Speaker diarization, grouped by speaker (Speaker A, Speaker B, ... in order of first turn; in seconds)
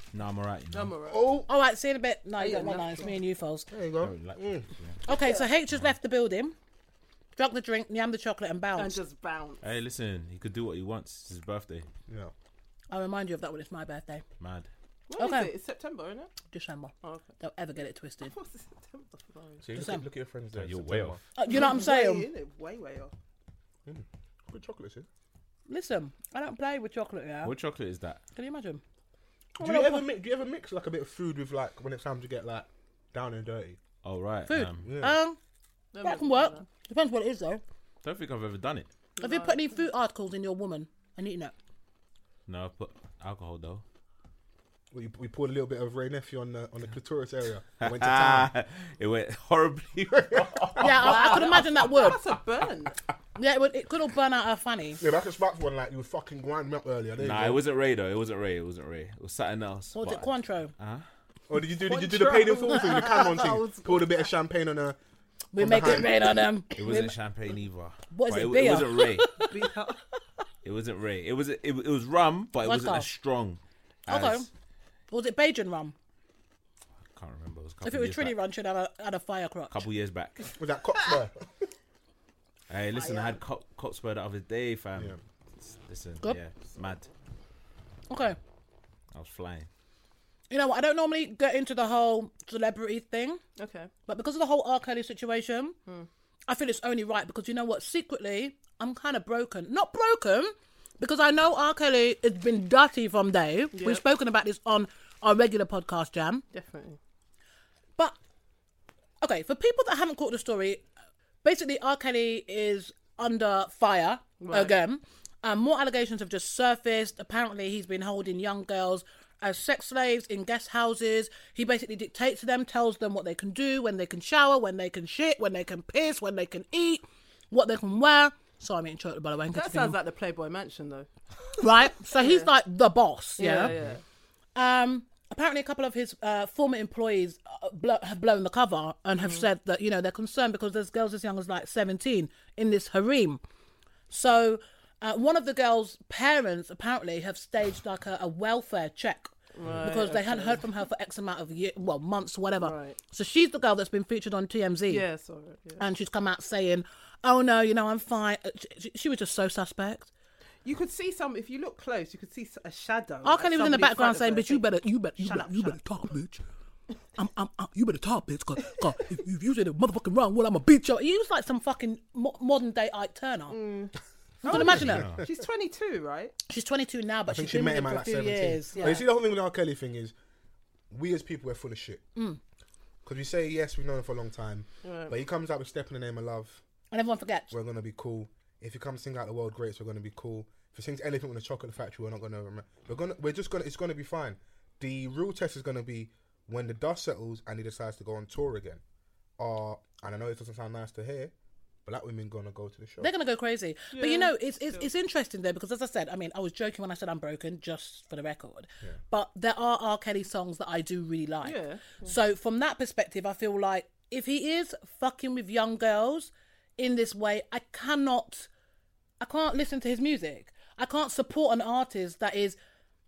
Speaker A: 0.1-0.9, 4.0-5.0, 9.6-11.9, 14.4-14.7, 20.6-21.2, 27.4-28.2, 34.0-34.9, 38.0-38.9, 42.5-43.8, 47.8-51.7, 57.2-61.0, 66.7-69.4, 70.6-74.5, 77.1-78.3, 79.7-80.5, 82.7-87.1, 89.1-89.7, 174.5-175.2
Speaker B: 0.7-1.2, 2.4-3.1, 5.1-5.5, 8.8-9.6, 15.1-16.3, 17.0-17.3, 18.2-19.6, 21.5-23.1, 35.9-36.6, 39.2-39.6, 51.0-52.9, 61.8-64.3, 69.3-70.0, 83.0-83.3, 93.6-93.9, 103.7-104.0, 106.5-107.0, 114.4-114.7, 129.5-132.5, 133.4-134.0, 139.2-139.5, 149.5-150.6, 152.6-153.0, 154.9-155.8, 160.6-164.6, 165.2-165.8, 173.5-176.3, 178.7-179.0, 184.8-185.1, 203.9-204.9, 211.4-212.1
Speaker C: 1.1-1.5, 3.7-4.7, 12.1-12.3, 19.6-21.2, 23.9-25.1, 29.6-33.8, 34.8-35.2, 44.9-48.5, 50.3-51.1, 55.0-57.6, 61.5-65.0, 65.5-66.4, 80.6-81.7, 174.5-175.2, 177.3-180.1, 180.9-182.0, 183.0-186.6, 187.5-198.8, 199.4-201.3, 201.8-203.1
Speaker D: 1.5-3.7, 5.0-6.5, 7.4-9.0, 12.9-14.2, 15.2-15.5, 16.5-18.3, 19.7-20.0, 21.3-22.3, 25.7-27.5, 28.3-28.8, 29.6-30.1, 34.5-35.4, 36.0-37.6, 39.2-41.5, 50.8-52.2, 53.4-55.0, 59.9-60.7, 65.5-67.1, 68.1-69.5, 72.6-73.1, 74.1-74.5, 75.1-75.9, 77.8-79.8, 88.1-88.4, 90.5-93.4, 94.1-95.8, 96.5-106.4, 109.2-110.8, 111.4-130.0, 131.6-133.7, 134.5-143.4, 144.1-155.0, 155.8-160.1, 163.2-166.4, 167.2-173.6, 174.4-175.1, 176.5-179.0, 186.9-187.5, 203.0-218.5, 219.2-222.6